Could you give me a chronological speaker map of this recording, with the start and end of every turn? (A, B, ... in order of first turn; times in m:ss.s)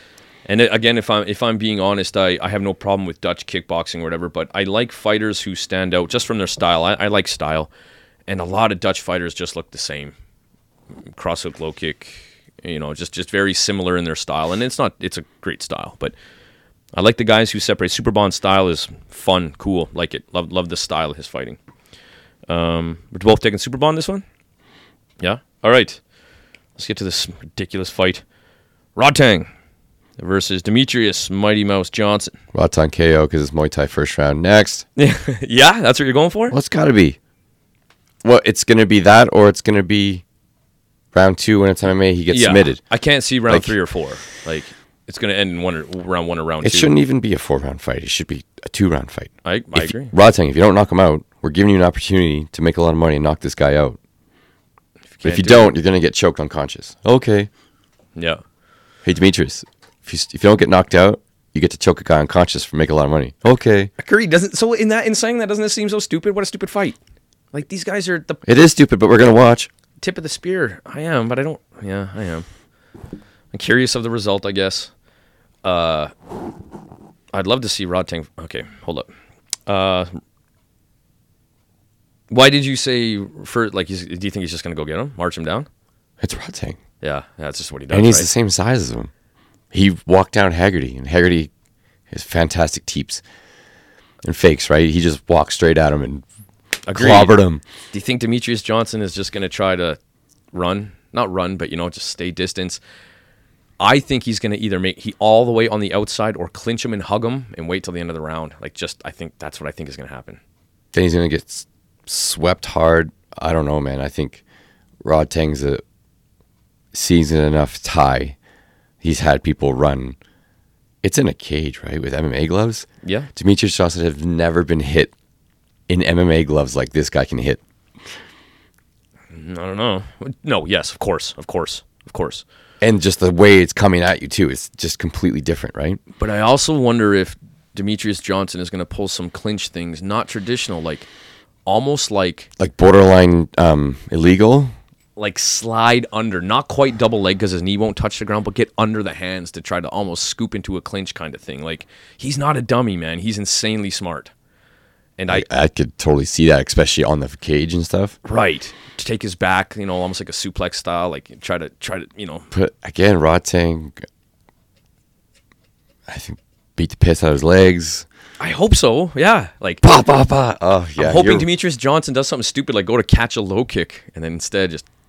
0:00.4-0:07.7 A
0:08.3-0:10.1 A
0:11.1-0:16.1 A
0:16.9-0:21.6 A
0:22.5-0:24.2 A
0:25.2-0:26.0 A
0:26.8-0:28.2 A
0:29.0-0:29.5 A
0:30.2-0:32.4 A
0:32.5-0:34.8 B
0:35.0-0:36.6 A
0:36.5-0:37.2 B
0:38.2-0:40.2 B
0:41.1-0:42.8 B
0:42.3-0:46.9 A
0:43.5-0:43.7 B
0:46.6-0:54.0 B
0:49.4-0:50.1 A
0:55.1-0:55.7 A
0:55.2-0:57.5 B
0:58.2-0:58.4 A
0:59.0-1:03.9 B
1:04.0-1:07.0 A
1:07.5-1:08.4 A
1:08.4-1:09.7 B
1:10.0-1:12.4 A
1:13.5-1:14.9 A
1:15.6-1:16.1 A
1:17.3-1:19.1 A
1:19.7-1:20.1 A
1:22.3-1:25.7 A
1:26.2-1:26.8 B
1:27.0-1:28.3 A
1:27.9-1:29.1 B
1:29.7-1:31.5 B
1:32.1-1:33.2 B
1:34.2-1:36.2 B
1:36.8-1:37.4 A
1:36.9-1:37.6 B
1:37.9-1:40.0 A
1:40.5-1:42.8 A
1:43.8-1:50.4 A
1:50.9-1:54.4 B
1:55.0-1:55.8 B
1:56.9-1:58.4 B
1:59.0-2:00.2 B
2:01.0-2:05.1 B
2:03.0-2:03.3 A
2:05.9-2:07.6 B
2:09.3-2:12.4 A
2:12.8-2:16.0 B
2:16.2-2:21.1 A
2:21.6-2:22.5 A
2:22.6-2:24.7 B
2:25.2-2:34.3 A
2:35.2-2:35.4 A
2:35.3-2:38.2 B
2:38.2-2:42.5 A
2:42.5-2:44.0 B
2:46.1-2:48.0 B
2:48.4-2:49.8 A
2:49.8-2:51.5 B
2:51.0-2:54.8 A